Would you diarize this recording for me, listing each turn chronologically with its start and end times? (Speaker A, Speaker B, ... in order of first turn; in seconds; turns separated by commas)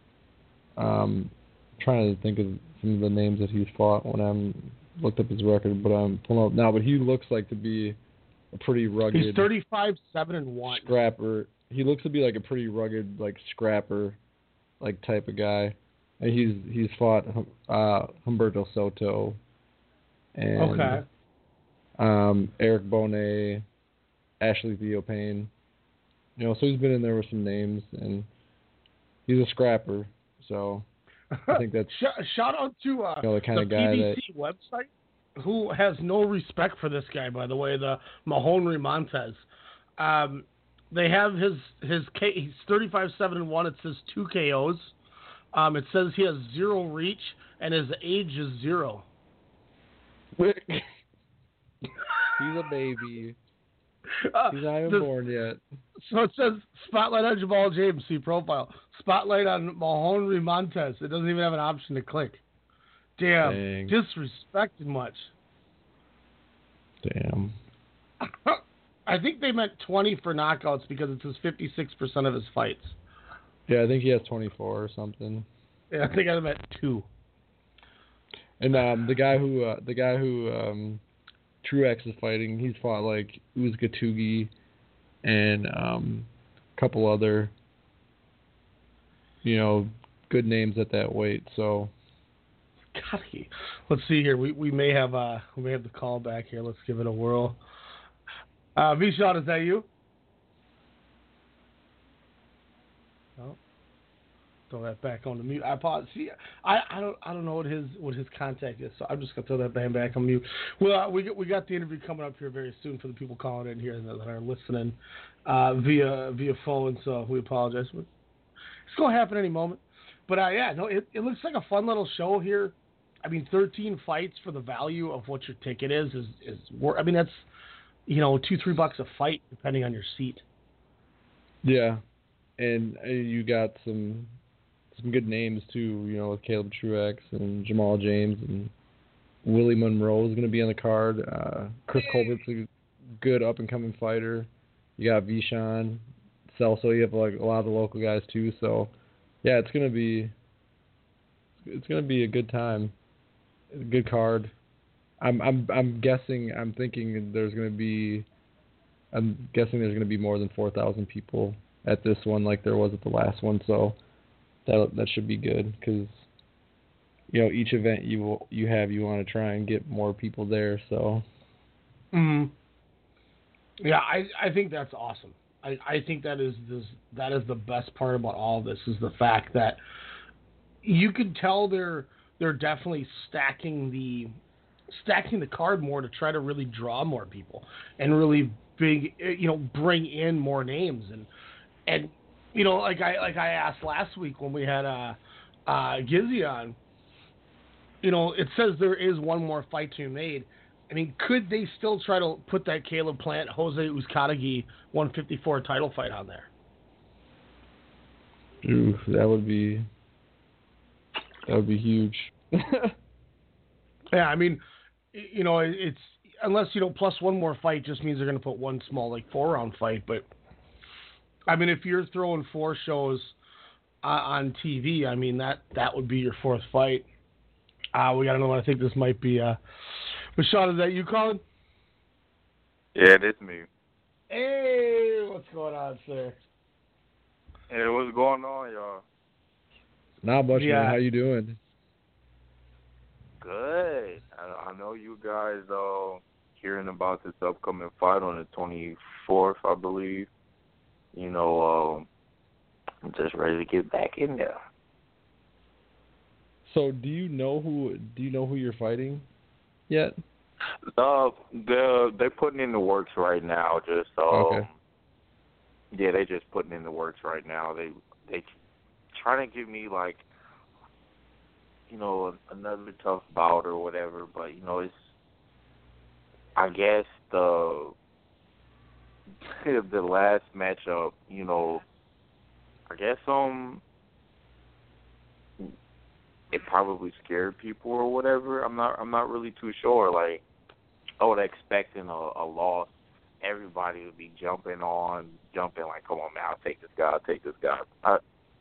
Speaker A: 0.8-8.0, Speaker A: 8.5-9.5, Speaker B: 9.1-10.9, Speaker A: 10.7-14.2, Speaker A: 14.8-19.4, Speaker A: 20.4-21.0, Speaker B: 20.6-21.0, Speaker A: 22.0-23.7, Speaker A: 24.4-25.5, Speaker A: 26.4-28.3, Speaker A: 29.3-30.9, Speaker B: 31.5-39.5, Speaker A: 31.5-32.0, Speaker A: 33.2-34.2, Speaker B: 40.0-44.9, Speaker B: 45.5-49.1, Speaker A: 50.4-50.9, Speaker A: 52.4-53.4, Speaker B: 54.2-55.1, Speaker A: 54.5-55.6, Speaker B: 56.0-62.4, Speaker B: 63.2-65.3, Speaker A: 63.4-64.0, Speaker A: 67.0-67.6, Speaker B: 68.3-73.0, Speaker A: 73.7-75.5, Speaker B: 75.9-77.1, Speaker A: 78.6-81.0, Speaker A: 81.6-84.5, Speaker A: 85.2-87.5, Speaker A: 89.4-91.9, Speaker B: 92.9-97.6, Speaker B: 98.8-99.9, Speaker B: 104.7-118.1, Speaker B: 118.9-127.5, Speaker B: 128.1-130.4, Speaker A: 131.6-132.0, Speaker A: 132.6-134.4, Speaker A: 134.9-138.7, Speaker A: 139.4-150.3, Speaker A: 151.6-152.9, Speaker A: 153.7-154.5, Speaker A: 155.2-158.3, Speaker A: 159.1-164.0, Speaker A: 164.7-166.3, Speaker A: 167.3-171.2, Speaker B: 172.1-172.5, Speaker B: 173.8-179.8, Speaker B: 180.8-184.3, Speaker B: 184.9-191.3, Speaker B: 191.9-196.8, Speaker B: 198.0-206.5, Speaker A: 208.6-209.9, Speaker A: 211.5-212.9, Speaker B: 214.1-214.6, Speaker B: 215.1-220.3, Speaker B: 221.5-223.4, Speaker B: 224.0-227.1, Speaker B: 227.9-229.6, Speaker B: 230.4-231.4, Speaker C: 232.9-233.7, Speaker B: 234.3-236.4, Speaker C: 237.7-239.0, Speaker A: 240.2-241.6, Speaker B: 240.6-241.0, Speaker C: 243.4-250.3, Speaker C: 251.1-252.1, Speaker C: 253.1-254.6, Speaker A: 256.7-259.3, Speaker A: 259.9-260.1, Speaker C: 261.0-264.7, Speaker A: 264.3-264.7, Speaker C: 265.9-268.5, Speaker C: 269.1-270.2, Speaker C: 271.9-275.1, Speaker C: 276.6-277.9, Speaker C: 279.5-281.8, Speaker C: 282.9-283.8, Speaker C: 286.5-290.4, Speaker C: 291.2-292.9, Speaker C: 293.4-298.2